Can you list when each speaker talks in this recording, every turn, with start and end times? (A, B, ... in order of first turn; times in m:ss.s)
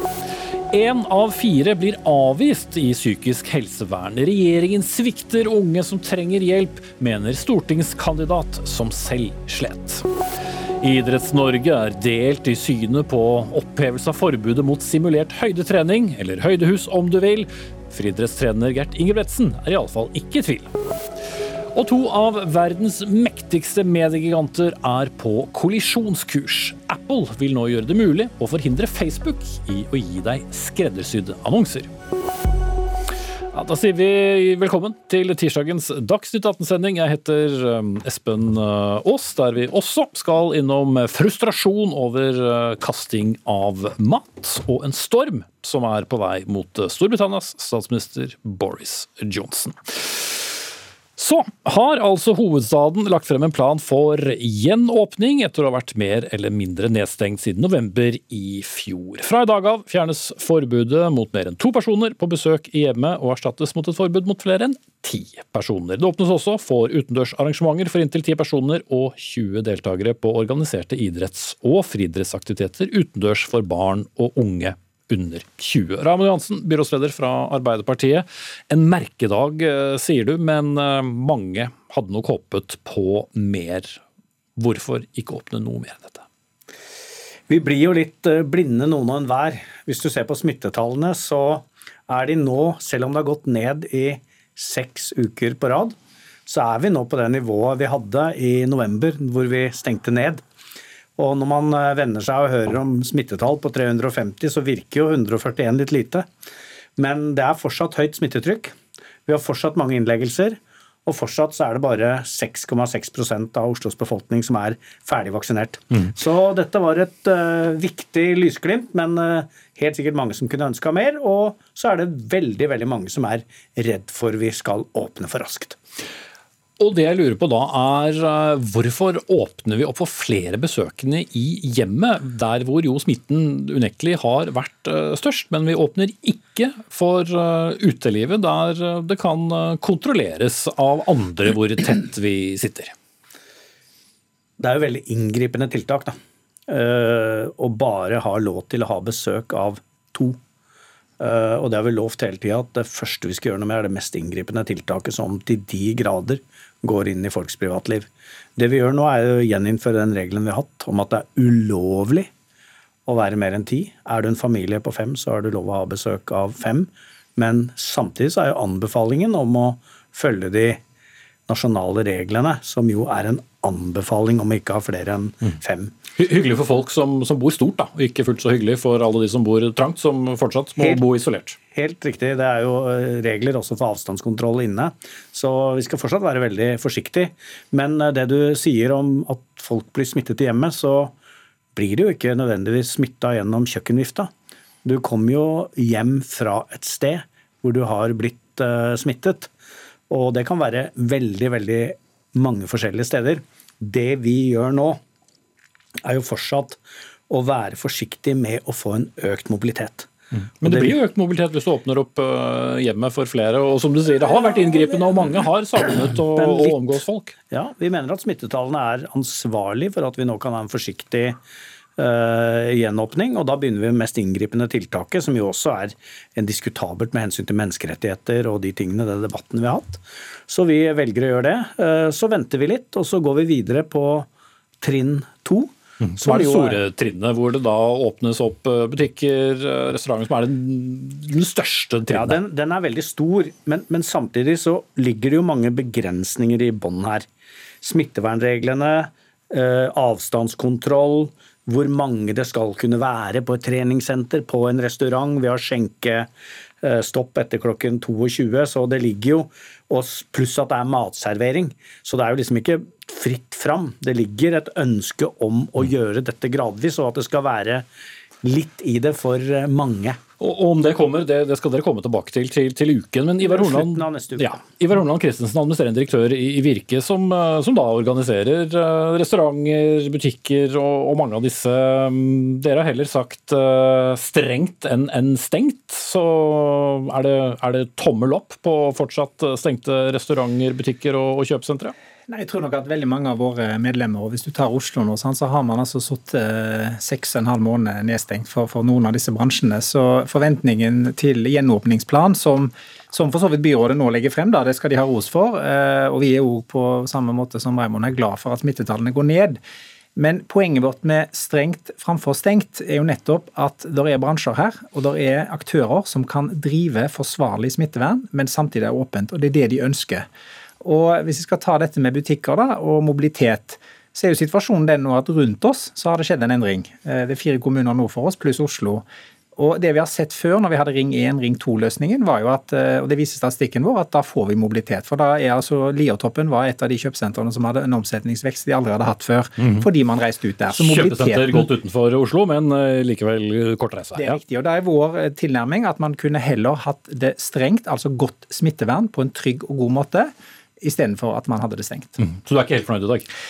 0:00.7-0:10.0 A
0:10.8-0:20.7 A
0:21.7-0:31.9 A
0:33.5-0:50.6 A
0:51.2-1:24.0 A
1:24.6-1:26.2 A
1:27.5-1:40.4 B
1:41.2-1:46.3 B
1:47.0-2:05.8 B
2:06.8-2:22.9 A
2:24.6-2:26.2 B
2:26.7-2:30.4 B
2:31.2-2:42.3 B
2:43.1-2:50.8 B
2:51.5-2:55.9 B
2:56.2-3:01.6 A
3:01.7-3:11.1 B
3:11.8-3:14.3 B
3:14.8-3:19.5 B
3:20.1-3:25.0 B
3:26.0-3:26.8 B
3:27.3-3:30.1 B
3:30.6-3:37.4 A
3:30.6-3:31.0 B
3:36.3-3:41.4 B
3:42.0-3:54.3 B
3:54.8-3:56.8 B
3:56.0-4:02.4 A
4:02.1-4:07.3 B
4:07.8-4:16.3 B
4:16.8-4:27.9 B
4:28.4-4:30.2 B
4:30.4-4:51.9 A
4:33.4-4:34.6 B
4:52.3-5:09.6 C
5:10.2-5:20.3 C
5:20.8-5:41.7 C
5:40.7-5:44.4 A
5:44.2-5:52.2 C
5:52.2-5:53.3 A